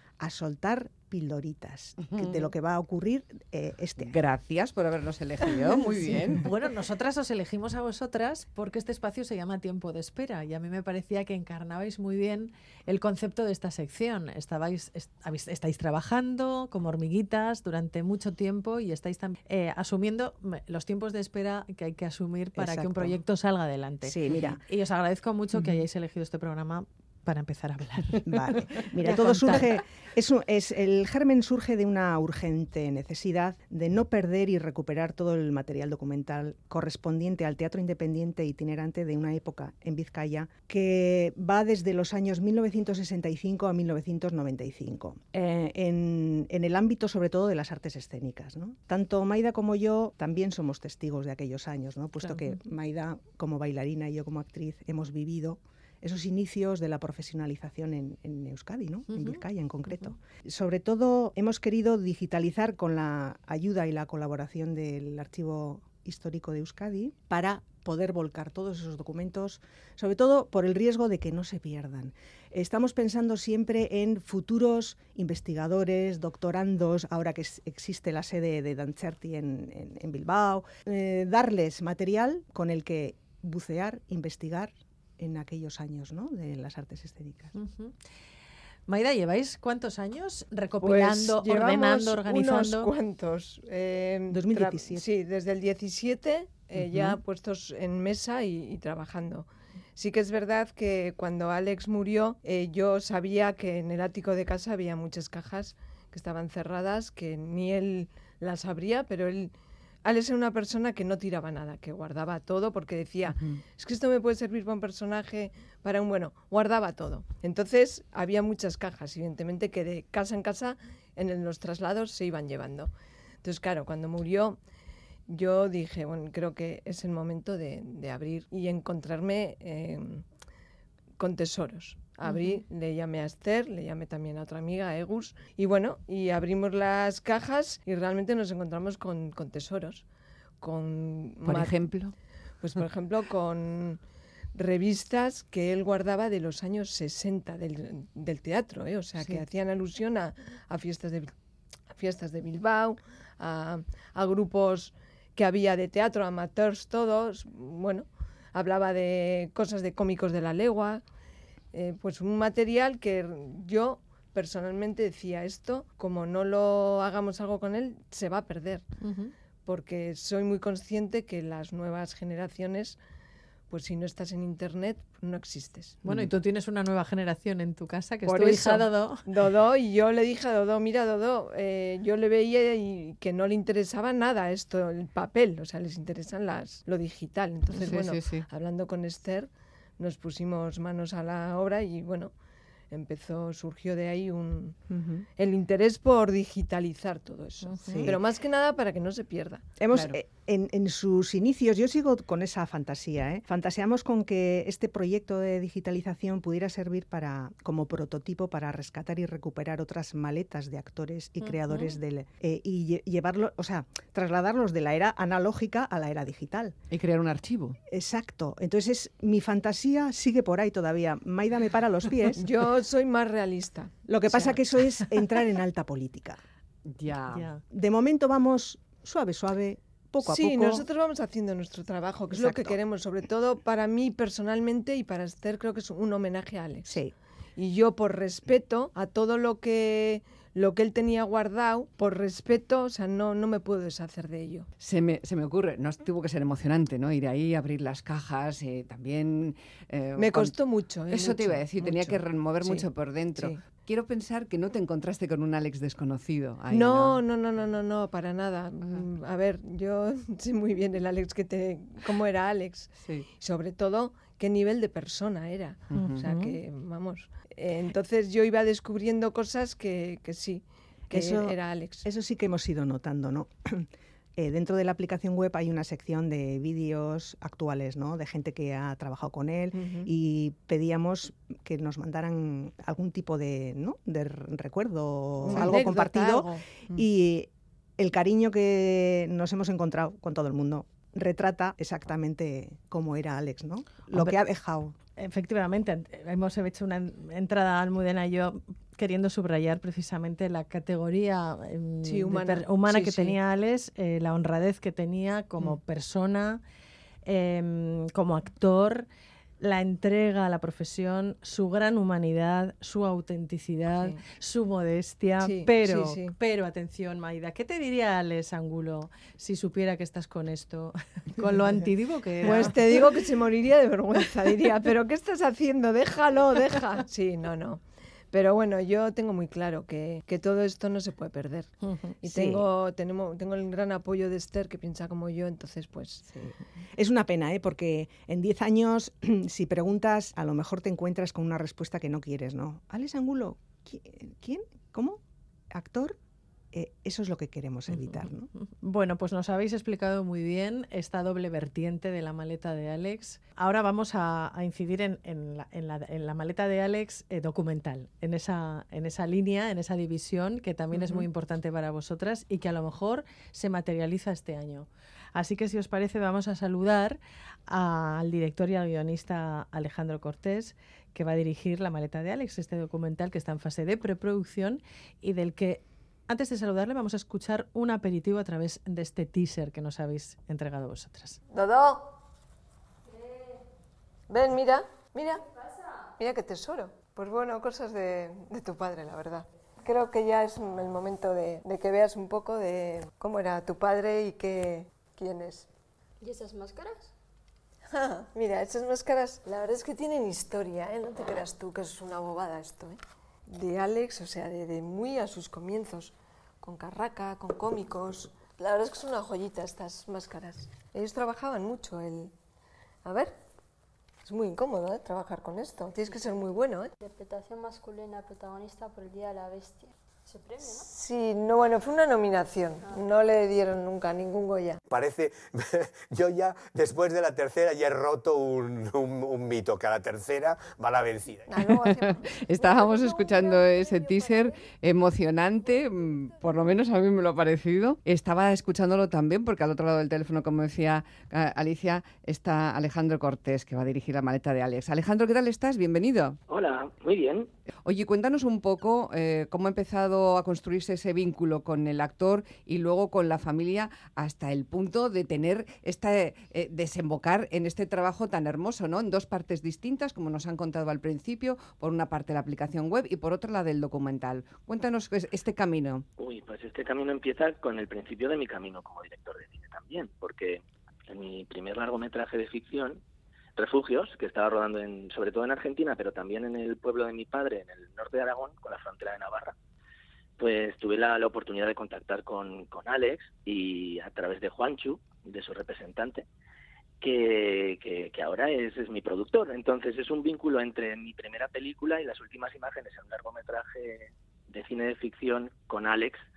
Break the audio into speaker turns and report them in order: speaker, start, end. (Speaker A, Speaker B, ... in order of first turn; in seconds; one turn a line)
Speaker A: 0.2-4.2
Speaker B: 4.0-6.5
Speaker C: 6.4-29.6
Speaker A: 22.6-23.2
Speaker A: 24.0-24.6
Speaker A: 28.2-87.5
Speaker C: 52.2-52.5
Speaker C: 59.1-59.4
Speaker C: 87.5-88.0
Speaker C: 88.9-92.9
Speaker D: 90.8-109.5
Speaker A: 94.3-95.0
Speaker B: 96.8-97.2
Speaker D: 110.0-122.9
Speaker B: 113.3-113.6
Speaker D: 123.4-124.6
Speaker D: 125.3-130.3
Speaker D: 131.2-140.0
Speaker D: 140.6-141.9
Speaker B: 141.4-142.1
Speaker D: 142.6-144.0
Speaker D: 144.6-151.3
Speaker D: 151.9-161.0
Speaker D: 161.7-168.9
Speaker C: 169.0-169.3
Speaker D: 169.7-173.0
Speaker D: 173.7-176.0
Speaker C: 176.0-179.2
Speaker D: 178.2-192.3
Speaker B: 187.8-188.5
Speaker D: 192.9-194.8
Speaker A: 194.9-195.3
Speaker D: 195.4-199.7
Speaker C: 197.7-198.1
Speaker A: 197.9-198.2
Speaker A: 199.8-216.8
Speaker C: 211.4-212.0
Speaker B: 216.9-217.8
Speaker A: 217.8-222.4
Speaker D: 222.4-224.5
Speaker A: 224.1-226.4
Speaker B: 226.9-227.5
Speaker C: 227.3-227.6
Speaker A: 227.7-230.9
Speaker D: 230.2-237.0
Speaker A: 232.3-232.8
Speaker A: 236.9-237.1
Speaker D: 237.6-244.7
Speaker B: 244.8-250.6
Speaker D: 250.2-253.6
Speaker B: 251.1-257.2
Speaker D: 256.7-272.1
Speaker B: 263.0-263.3
Speaker B: 265.9-266.3
Speaker C: 265.9-266.4
Speaker A: 271.1-294.9
Speaker D: 279.8-280.1
Speaker D: 285.4-287.0
Speaker C: 294.1-294.4
Speaker C: 295.2-306.6
Speaker D: 302.1-303.4
Speaker C: 307.3-309.1
Speaker C: 309.6-322.8
Speaker D: 315.4-316.4
Speaker D: 322.4-336.3
Speaker A: 332.2-332.7
Speaker A: 336.3-345.2
Speaker A: 345.7-346.2
Speaker A: 346.7-348.5
Speaker C: 347.9-381.4
Speaker D: 360.9-361.3
Speaker D: 381.5-382.1
Speaker D: 384.3-385.5
Speaker D: 386.2-395.7
Speaker E: 396.2-397.1
Speaker D: 397.9-412.3
Speaker D: 413.0-413.3
Speaker D: 414.2-416.9
Speaker E: 417.0-420.9
Speaker D: 420.6-424.8
Speaker F: 424.9-431.6
Speaker D: 431.5-432.3
Speaker B: 431.8-446.4
Speaker E: 432.6-434.7
Speaker E: 435.6-436.5
Speaker G: 446.5-447.5
Speaker B: 447.9-466.1
Speaker G: 466.2-473.0
Speaker G: 473.6-479.6
Speaker G: 480.4-486.2
Speaker G: 487.0-496.2